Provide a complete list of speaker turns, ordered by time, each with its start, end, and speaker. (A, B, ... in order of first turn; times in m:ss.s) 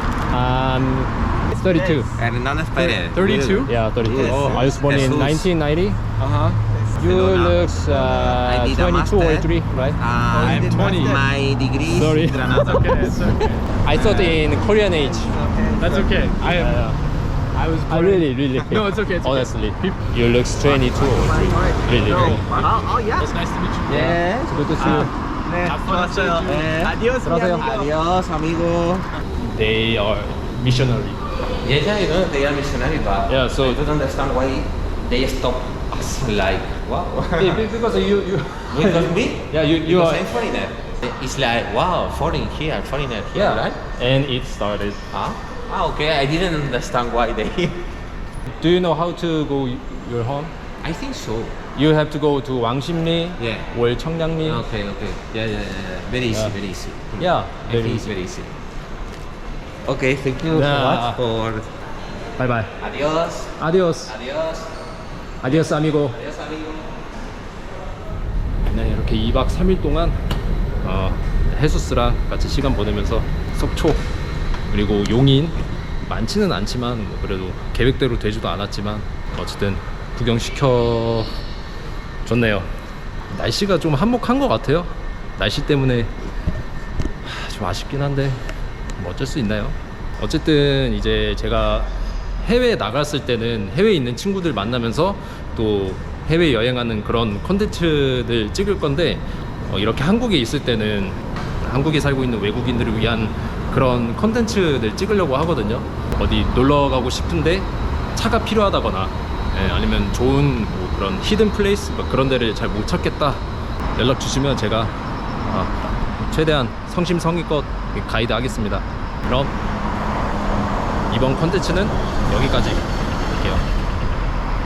0:00.3-0:02.2 A
0:01.5-0:02.1 B
0:02.2-0:05.5 C
0:02.7-0:06.0 A
0:04.2-0:04.7 B
0:06.2-0:16.2 C
0:07.0-0:10.0 A
0:10.3-0:11.2 B
0:10.6-0:11.1 A
0:11.9-0:13.0 A
0:12.6-0:13.6 B
0:13.8-0:15.4 A
0:15.7-0:16.9 B
0:16.1-0:17.0 A
0:17.5-0:19.5 B
0:17.9-0:22.5 A
0:20.6-0:23.3 C
0:21.2-0:24.1 B
0:23.9-0:25.1 C
0:23.9-0:25.1 A
0:24.8-0:27.9 B
0:25.6-0:26.9 C
0:27.2-0:27.8 A
0:27.6-0:29.1 C
0:29.4-0:31.2 A
0:31.6-0:37.7 C
0:33.3-0:33.8 A
0:37.4-0:40.3 A
0:38.7-0:43.8 C
0:43.3-0:45.0 A
0:45.1-0:47.9 C
0:48.5-0:50.5 A
0:50.8-0:51.6 C
0:51.7-0:54.6 A
0:53.4-0:53.7 C
0:54.4-0:58.5 C
0:56.3-0:56.6 A
0:57.2-0:58.1 A
0:59.8-1:01.7 C
1:00.5-1:01.2 A
1:02.4-1:02.8 A
1:02.8-1:04.8 C
1:03.6-1:04.2 A
1:05.4-1:06.2 A
1:05.4-1:06.9 C
1:08.7-1:10.2 A
1:10.8-1:14.1 A
1:14.7-1:21.4 A
1:22.2-1:22.7 A
1:23.3-1:26.2 A
1:27.2-1:59.6 A
2:01.1-2:03.7 A